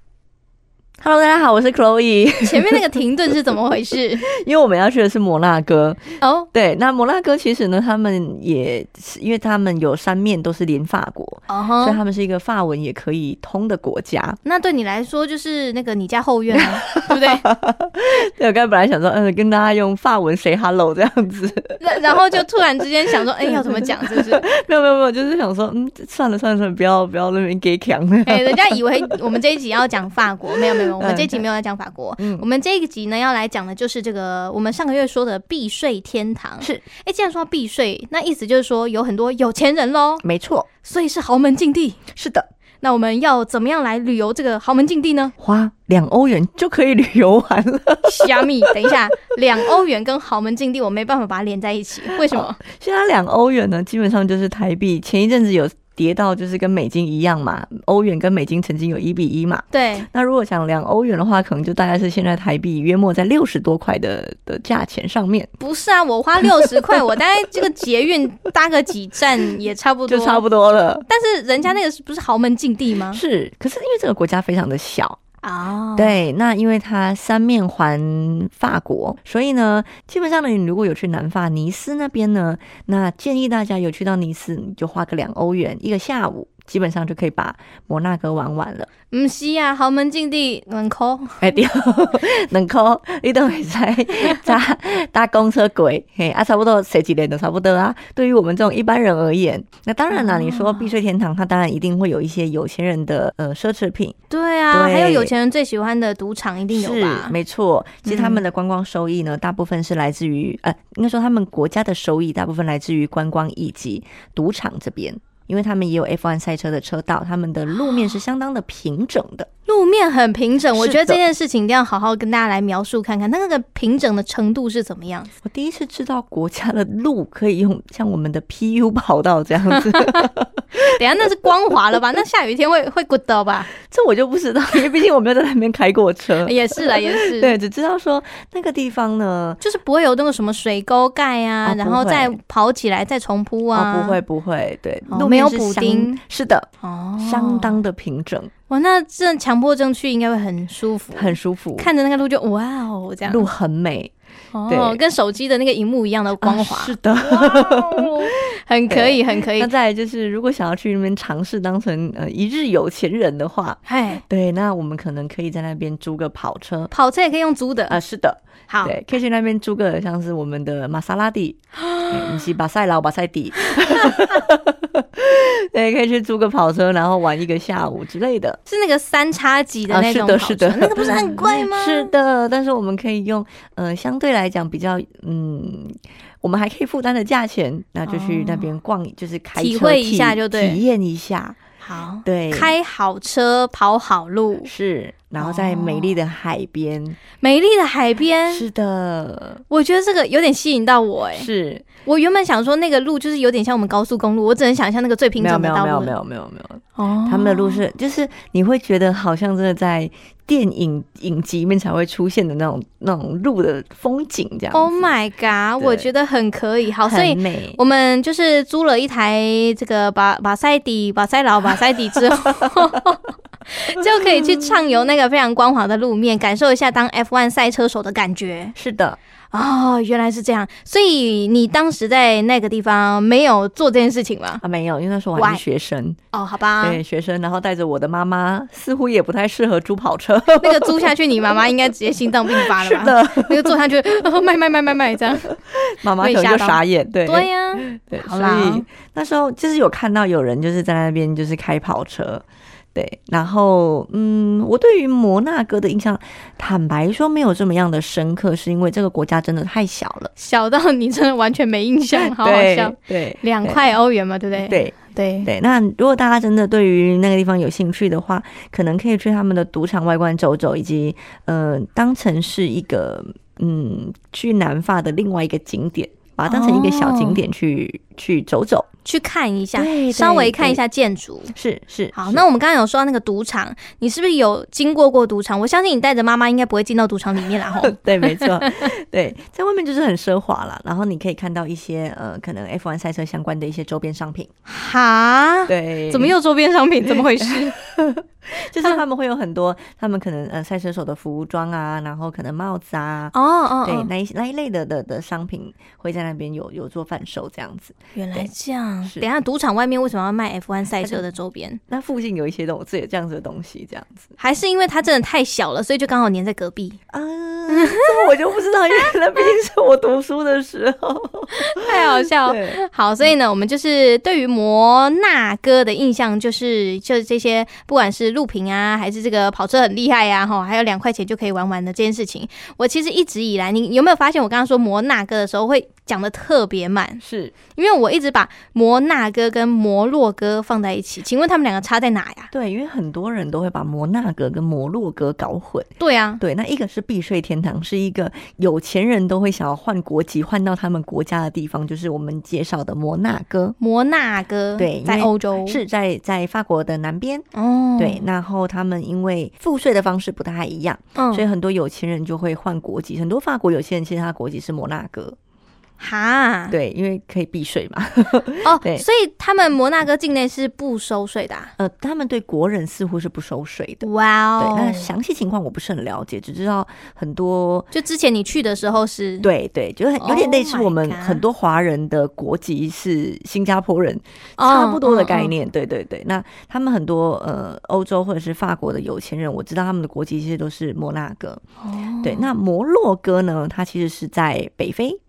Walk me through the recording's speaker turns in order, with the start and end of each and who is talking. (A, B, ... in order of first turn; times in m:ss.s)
0:01.0-0:02.8 A
0:02.4-0:04.2 B
0:04.2-0:14.4 A
0:06.2-0:06.5 B
0:11.5-0:12.0 B
0:14.4-0:17.5 B
0:16.5-0:22.4 A
0:21.8-0:24.4 B
0:23.1-0:29.0 A
0:28.2-0:40.2 B
0:30.5-0:31.4 A
0:32.2-0:32.5 A
0:40.2-0:40.7 A
0:40.8-0:42.0 B
0:42.1-0:42.5 A
0:42.8-0:45.3 B
0:45.4-0:49.0 A
0:48.0-0:52.6 B
0:52.1-1:05.5 A
0:59.7-1:00.1 B
1:05.6-1:10.4 B
1:10.1-1:11.1 A
1:11.1-1:13.2 B
1:13.1-1:15.2 A
1:15.4-1:16.2 B
1:16.0-1:28.9 A
1:29.1-1:31.6 B
1:31.4-1:44.2 A
1:40.1-1:40.9 B
1:44.3-1:47.4 B
1:44.7-1:45.3 A
1:46.7-1:59.5 A
1:48.0-1:48.4 B
1:57.7-1:58.2 B
1:59.7-2:05.3 B
2:00.8-2:01.2 A
2:05.4-2:11.0 A
2:09.8-2:10.2 B
2:10.8-2:13.7 B
2:13.8-2:19.6 A
2:16.4-2:17.5 B
2:19.6-2:24.2 B
2:21.6-2:22.4 A
2:23.7-2:26.7 A
2:25.1-2:26.2 B
2:26.8-2:27.8 B
2:27.2-2:28.5 A
2:28.7-2:33.5 B
2:31.1-2:31.9 A
2:33.3-2:34.1 A
2:34.5-2:39.7 B
2:34.7-2:35.0 A
2:36.4-2:46.9 A
2:43.9-2:44.2 B
2:46.9-2:48.0 B
2:47.9-2:58.6 A
2:48.7-2:49.0 B
2:51.9-2:52.4 B
2:58.7-3:02.1 B
2:59.9-3:11.6 A
3:08.1-3:08.7 B
3:09.6-3:10.8 B
3:11.8-3:14.7 B
3:12.2-3:12.7 A
3:14.6-3:17.2 A
3:15.4-3:16.2 B
3:17.4-3:18.7 B
3:18.5-3:19.6 A
3:19.7-3:21.5 B
3:21.4-3:21.9 A
3:22.0-3:26.2 B
3:25.4-3:35.1 A
3:27.0-3:27.8 B
3:34.7-3:48.8 B
3:35.8-3:36.1 A
3:37.0-3:37.8 A
3:48.8-3:49.2 A
3:49.5-3:54.6 B
3:54.6-3:56.2 A
3:55.4-3:55.6 B
3:56.3-3:57.0 B
3:56.8-4:01.1 A
4:00.6-4:05.5 B
4:02.6-4:03.8 A
4:05.5-4:12.4 A
4:06.2-4:08.9 B
4:13.0-4:20.3 A
4:20.4-4:25.5 B
4:22.1-4:23.9 A
4:24.6-4:38.9 A
4:36.5-4:37.4 B
4:39.0-4:41.5 B
4:39.8-4:40.8 A
4:41.5-4:42.4 A
4:42.1-4:48.8 B
4:47.7-4:54.5 A
4:54.7-4:57.8 B
4:55.7-4:56.4 A
4:57.0-5:08.5 A
5:03.3-5:04.1 B
5:08.2-5:11.8 B
5:11.9-5:14.3 A
5:14.4-5:17.0 B
5:17.1-5:22.8 A
5:17.7-5:18.3 B
5:21.5-5:37.2 B
5:37.2-5:37.6 A
5:37.7-5:42.5 B
5:42.5-5:45.9 A
5:46.0-5:46.4 B
5:46.4-5:53.8 A
5:53.8-5:55.8 B
5:54.8-5:57.5 A
5:57.5-5:58.2 B
5:58.0-6:05.4 A
6:01.2-6:01.5 B
6:06.0-6:06.8 B
6:06.7-6:09.1 A
6:08.6-6:11.7 B
6:11.8-6:17.9 A
6:14.0-6:15.1 B
6:17.9-6:19.5 B
6:19.4-6:31.6 A
6:20.2-6:21.4 B
6:24.6-6:25.5 B
6:31.8-6:32.5 B
6:32.2-6:35.2 A